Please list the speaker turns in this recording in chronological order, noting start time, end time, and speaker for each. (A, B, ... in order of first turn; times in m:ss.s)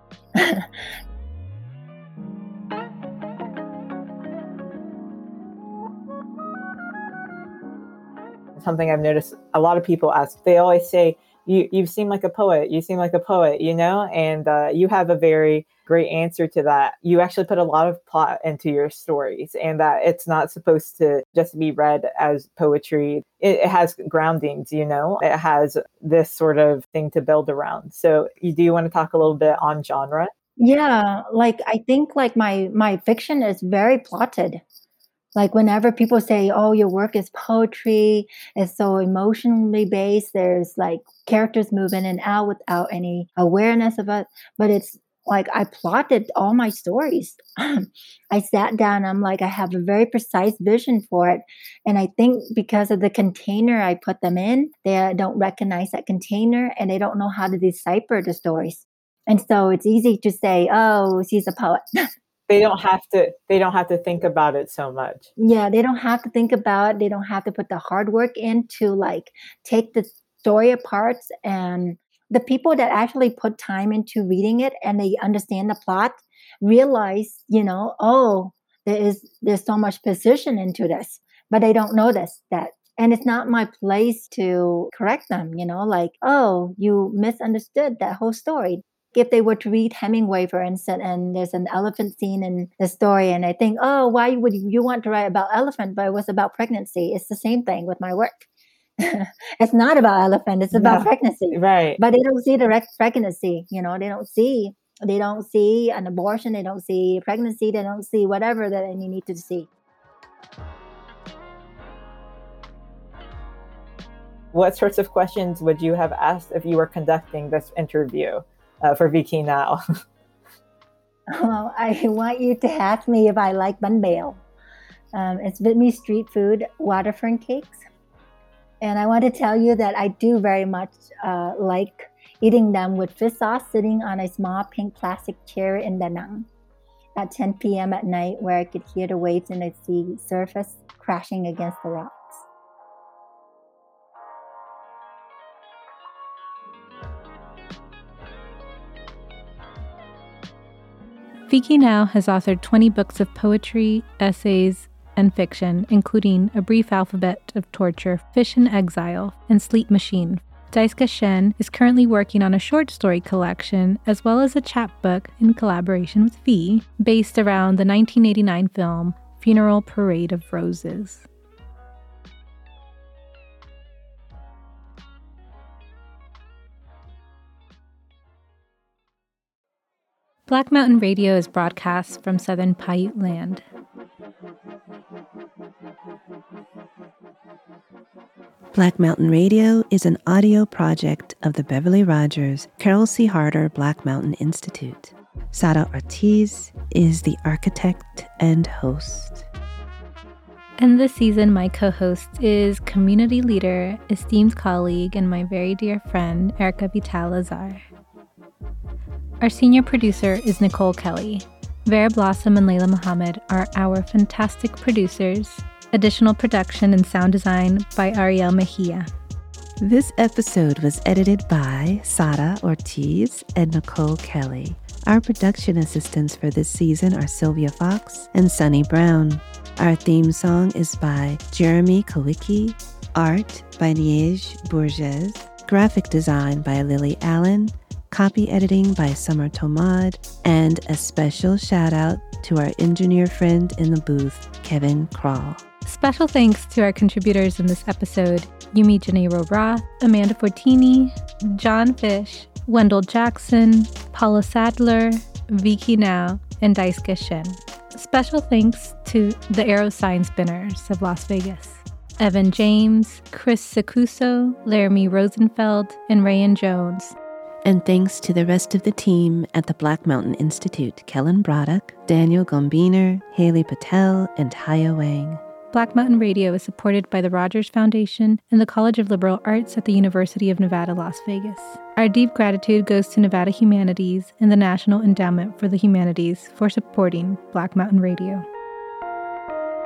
0:00.4-0:00.7 A
0:08.6-0:30.3 B
0:30.6-0:34.6 A
0:35.3-1:02.0 A
1:02.5-1:05.3 B
1:05.4-1:38.4 A
1:39.0-1:49.7 A
1:40.7-1:42.0 B
1:54.5-1:59.8 B
2:01.3-2:04.4 A
2:05.1-2:07.8 A
2:08.8-2:16.5 A
2:17.2-2:22.4 A
2:31.5-2:51.2 C
3:00.5-3:03.6 C
3:08.7-3:19.4 D
3:20.8-3:27.8 C
3:29.4-3:39.1 C
3:39.8-4:05.6 D
4:05.8-4:27.1 C
4:27.6-4:35.4 D
4:35.7-4:48.4 C